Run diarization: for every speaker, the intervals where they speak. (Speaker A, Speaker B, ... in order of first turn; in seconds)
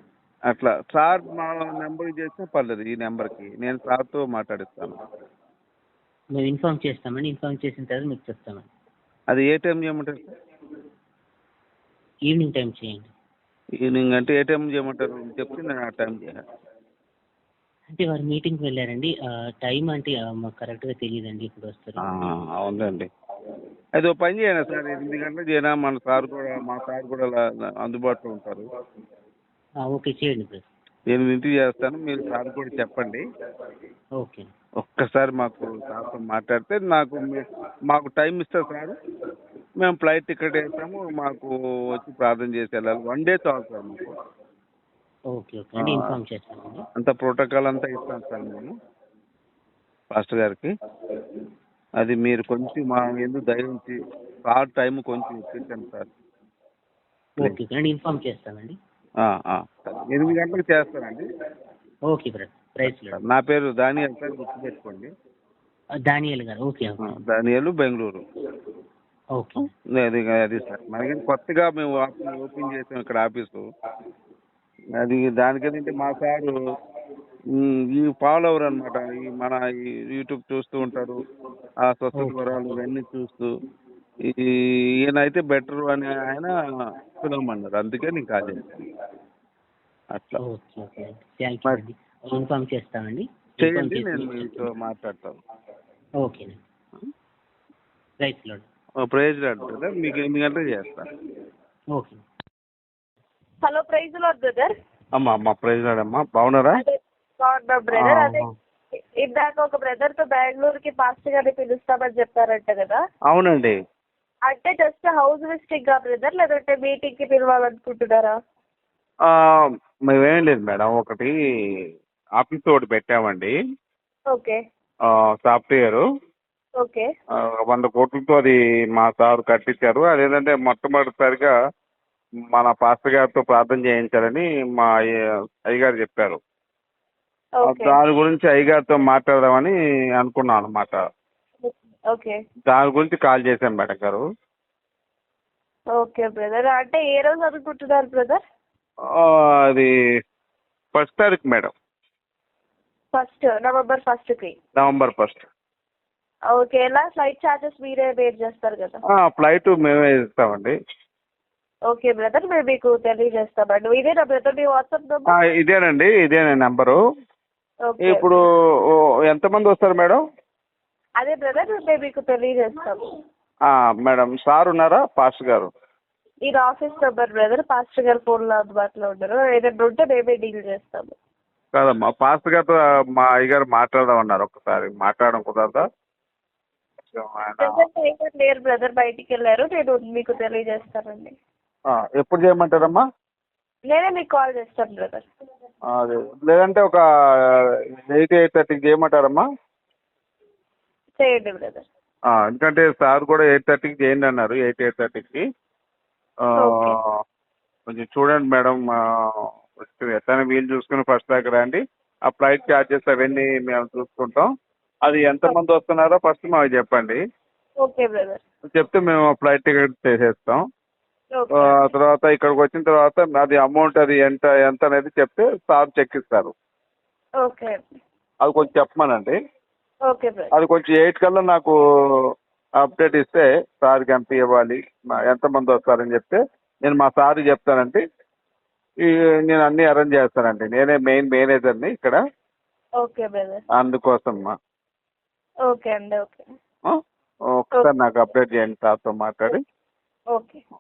Speaker A: 0.5-5.0, 9.3-10.3, 13.8-16.4, 22.0-23.1, 24.0-28.7, 31.1-33.2, 34.8-39.0, 39.8-44.2, 45.8-46.2, 47.0-48.7, 50.1-50.7, 52.0-54.0, 54.5-56.1, 59.2-61.2, 62.9-65.1, 67.0-68.2, 69.6-73.6, 75.0-76.5, 77.6-81.2, 81.9-83.5, 84.3-86.5, 87.2-88.9, 90.2-90.4, 93.6-95.4, 99.0-101.1, 105.2-106.8, 107.9-108.5, 113.3-113.8, 119.2-121.3, 122.4-123.5, 125.1-126.0, 127.7-131.5, 132.5-134.9, 135.7-136.4, 137.7-141.0, 142.7-144.2, 149.1-149.9, 150.9-151.7, 154.8-155.4, 159.1-160.7, 165.3-167.0, 168.0-168.4, 169.3-170.2, 173.7-175.7, 181.7-185.8, 187.1-187.8, 191.9-193.1, 195.9-197.5, 198.1-199.4, 202.3-205.4, 206.5-207.0, 207.9-214.5, 215.1-217.2, 218.8-220.6, 221.6-226.5, 228.4-229.4, 230.5-231.8, 232.8-238.0, 239.0-242.2, 243.8-244.5, 247.5-249.6
Speaker B: 6.4-8.7, 12.3-13.1, 17.9-22.0, 29.9-30.7, 34.2-34.5, 45.3-46.8, 57.4-58.8, 62.1-63.2, 66.0-67.2, 69.4-69.7, 82.2-82.8, 90.4-94.7, 96.2-96.6, 98.2-98.7
Speaker C: 103.6-104.7, 106.8-108.5, 109.2-113.0, 114.5-118.3, 124.3-124.6, 126.8-127.1, 137.6-138.0, 141.6-142.4, 145.9-148.4, 153.1-154.6, 156.5-159.0, 161.9-165.3, 167.9-168.3, 171.2-173.0, 176.4-181.2, 187.6-191.3, 193.9-195.3, 201.2-201.8, 206.6-207.0, 217.8-218.4, 221.3-221.9, 227.4-227.8, 230.1-230.5, 243.0-243.6, 245.7-246.5, 250.3-250.6